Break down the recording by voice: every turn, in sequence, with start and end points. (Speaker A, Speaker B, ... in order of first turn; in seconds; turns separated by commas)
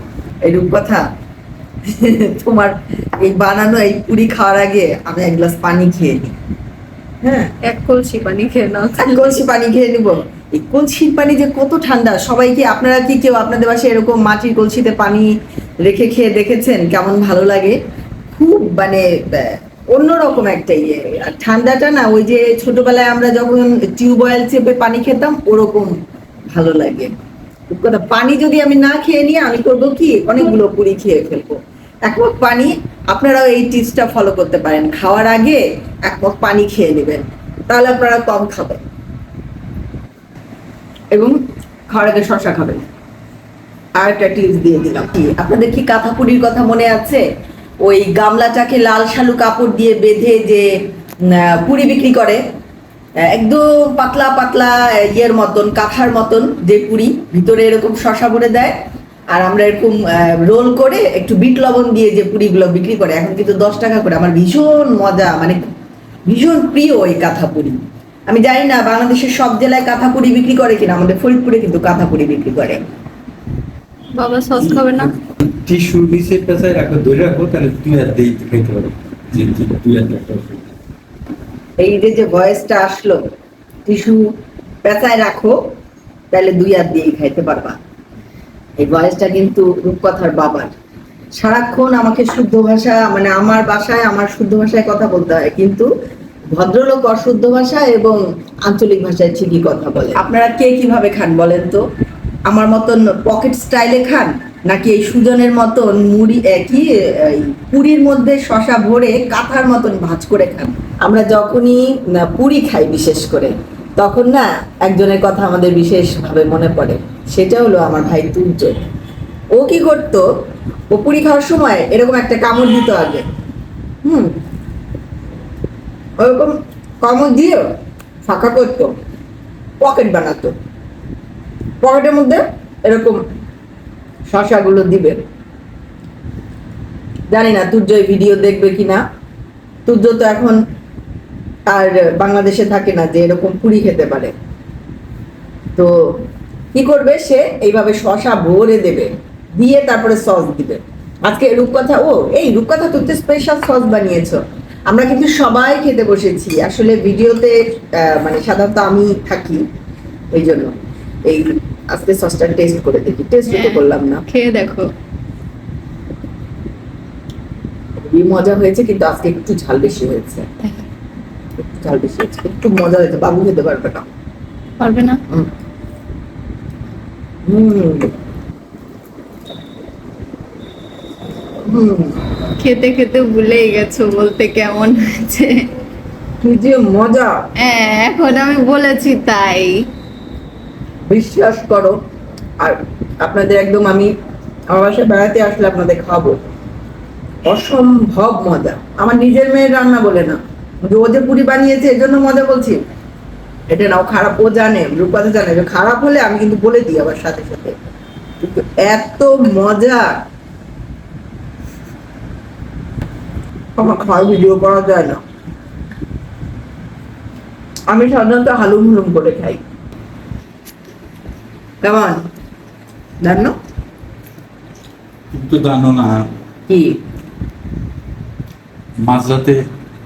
Speaker A: 0.4-1.0, Speaker A: 1.9-6.3, Speaker A: 7.2-7.5, Speaker B: 7.6-9.4, Speaker A: 9.0-15.3, Speaker A: 15.8-17.8, Speaker A: 18.3-25.9, Speaker A: 26.5-27.1, Speaker A: 27.7-38.8, Speaker A: 41.1-41.4, Speaker A: 41.9-42.8, Speaker A: 44.0-47.2, Speaker A: 47.8-50.7, Speaker A: 51.3-52.4, Speaker A: 53.2-58.7, Speaker A: 59.3-65.7, Speaker A: 66.3-67.8, Speaker A: 68.3-72.8, Speaker B: 74.1-75.1, Speaker C: 74.5-80.7, Speaker A: 81.8-83.2, Speaker A: 83.8-84.3, Speaker A: 84.8-85.5, Speaker A: 86.3-87.8, Speaker A: 88.8-90.7, Speaker A: 91.4-95.9, Speaker A: 96.5-101.8, Speaker A: 102.5-118.9, Speaker A: 119.5-120.2, Speaker A: 120.9-123.2, Speaker A: 124.0-124.3, Speaker A: 126.2-127.6, Speaker A: 128.2-128.9, Speaker A: 129.8-130.5, Speaker A: 131.8-133.2, Speaker A: 134.3-135.2, Speaker A: 137.3-139.0, Speaker A: 139.8-140.6, Speaker A: 141.7-144.3, Speaker A: 146.7-159.6, Speaker A: 160.3-164.2, Speaker B: 163.5-164.9, Speaker A: 168.0-170.5, Speaker A: 171.6-174.1, Speaker B: 174.8-175.2, Speaker A: 177.4-178.1, Speaker A: 181.6-182.2, Speaker B: 182.6-185.7, Speaker A: 186.4-187.3, Speaker B: 187.6-189.9, Speaker A: 191.1-191.9, Speaker A: 192.6-194.1, Speaker A: 194.7-196.4, Speaker A: 197.5-202.8, Speaker A: 203.7-207.7, Speaker A: 208.4-210.1, Speaker A: 213.8-215.2, Speaker A: 217.9-219.6, Speaker A: 221.8-222.2, Speaker A: 223.2-223.6, Speaker C: 225.3-226.3, Speaker A: 226.7-227.0, Speaker C: 229.0-229.6